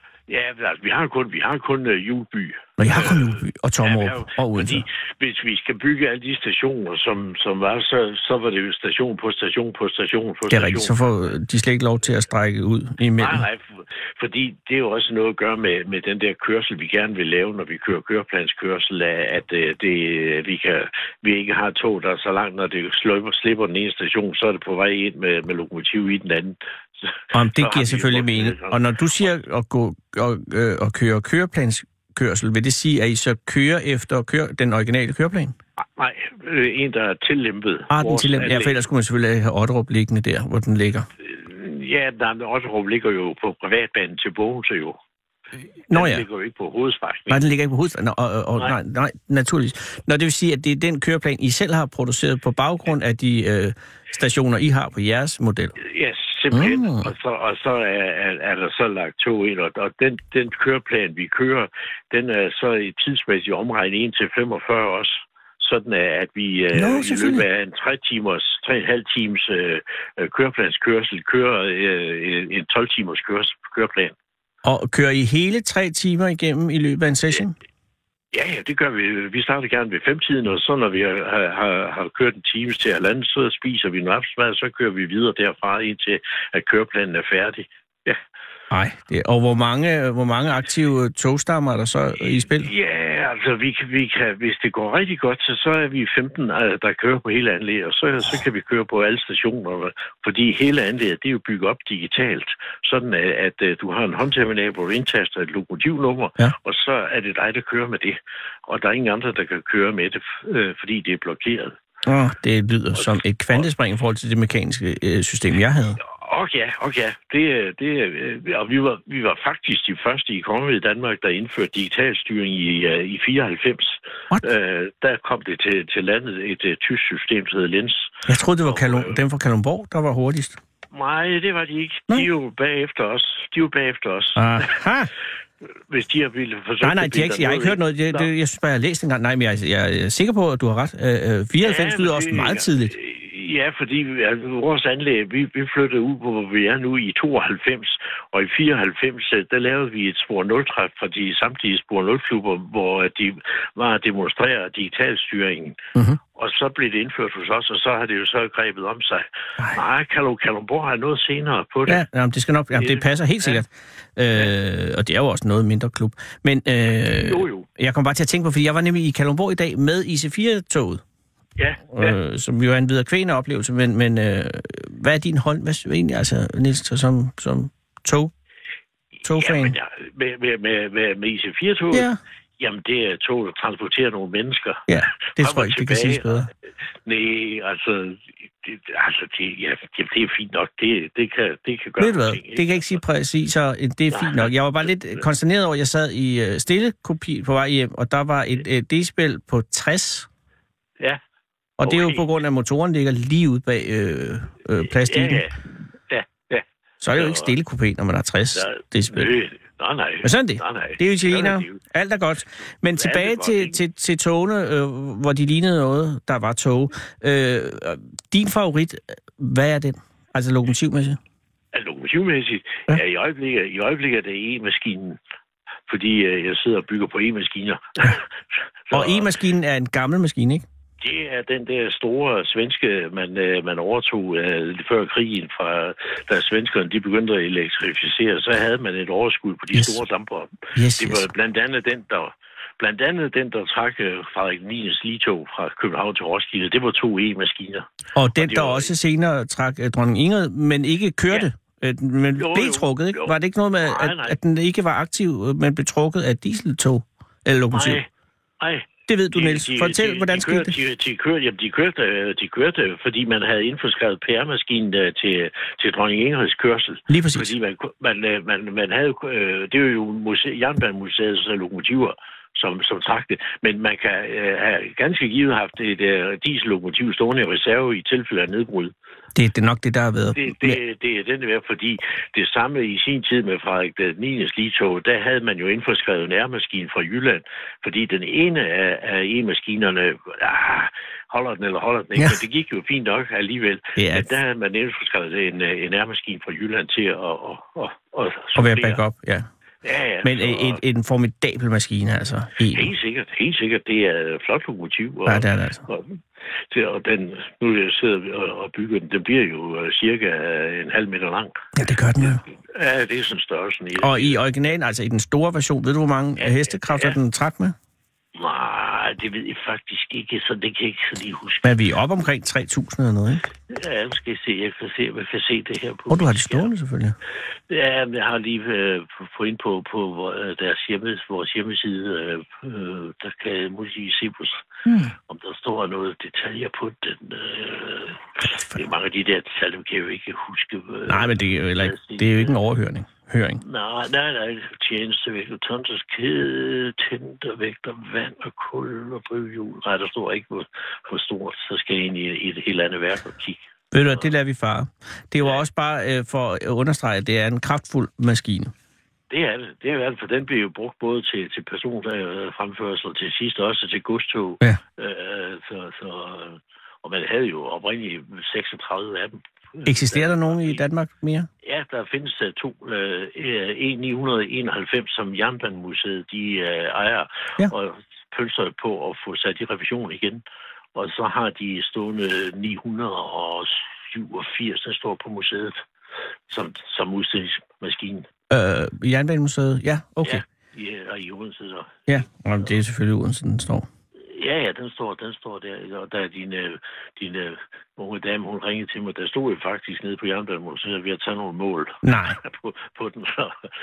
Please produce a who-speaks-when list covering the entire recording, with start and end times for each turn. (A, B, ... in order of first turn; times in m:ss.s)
0:00.3-0:11.0 A
0:02.8-0:04.9 B
0:10.5-0:13.4 B
0:13.2-0:29.4 A
0:27.3-0:35.6 B
0:35.8-0:38.8 A
0:37.9-0:41.1 B
0:41.2-0:45.0 A
0:45.9-0:47.4 A
0:45.9-0:46.2 B
0:47.3-0:55.8 B
0:55.8-1:14.2 A
0:56.5-0:57.1 B
1:06.7-1:07.4 B
1:14.6-1:17.6 B
1:18.3-1:28.2 A
1:28.7-1:32.7 B
1:32.4-1:51.7 A
1:52.0-1:56.0 B
1:53.0-1:53.6 A
1:56.0-2:09.2 A
2:08.3-2:10.6 B
2:10.9-2:14.8 A
2:14.4-2:15.1 B
2:15.9-2:18.3 A
2:16.8-2:23.0 B
2:21.6-2:35.8 A
2:36.4-2:42.0 A
2:41.9-2:51.0 B
2:42.8-2:43.6 A
2:47.0-2:47.7 A
2:51.6-2:52.2 A
2:51.9-2:58.3 B
2:59.2-3:02.1 A
2:59.2-2:59.8 B
3:01.9-3:02.2 B
3:02.6-3:06.5 A
3:04.9-3:06.5 B
3:07.1-3:13.0 A
3:12.0-3:20.3 B
3:14.1-3:15.2 A
3:21.8-3:25.4 B
3:21.8-3:22.2 A
3:24.8-3:25.6 A
3:26.1-3:27.6 A
3:27.0-3:29.3 B
3:28.6-3:31.8 A
3:30.2-3:41.2 B
3:33.0-3:33.8 A
3:41.7-3:45.2 A
3:45.9-3:48.3 A
3:48.9-3:49.3 A
3:48.9-3:50.7 B
3:51.0-4:08.9 A
3:59.7-4:00.0 B
4:00.8-4:01.3 B
4:08.1-4:18.0 B
4:12.4-4:14.4 A
4:17.7-4:18.1 A
4:18.6-4:38.9 A
4:19.1-4:20.8 B
4:27.1-4:27.5 B
4:39.4-4:40.8 B
4:40.3-4:59.0 A
4:54.0-4:54.3 B
4:58.6-4:59.5 B
4:59.8-5:00.8 A
5:00.2-5:02.9 B
5:02.6-5:11.6 A
5:05.3-5:05.8 B
5:11.8-5:12.4 B
5:12.2-5:14.4 A
5:14.0-5:17.8 B
5:16.4-5:17.2 A
5:18.4-5:21.8 A
5:21.6-5:23.4 B
5:23.7-5:26.7 A
5:26.1-5:27.2 B
5:27.7-5:34.7 A
5:34.9-5:35.1 B
5:35.2-5:42.6 A
5:41.1-5:43.6 B
5:43.6-5:53.6 A
5:53.9-5:58.7 B
5:59.3-6:10.8 A
6:09.8-6:11.5 B
6:11.6-6:20.4 A
6:21.0-6:25.8 A
6:26.5-6:28.3 A
6:28.5-6:30.4 B
6:30.2-6:32.1 A
6:32.1-6:33.9 B
6:34.2-6:43.6 A
6:42.0-6:42.4 B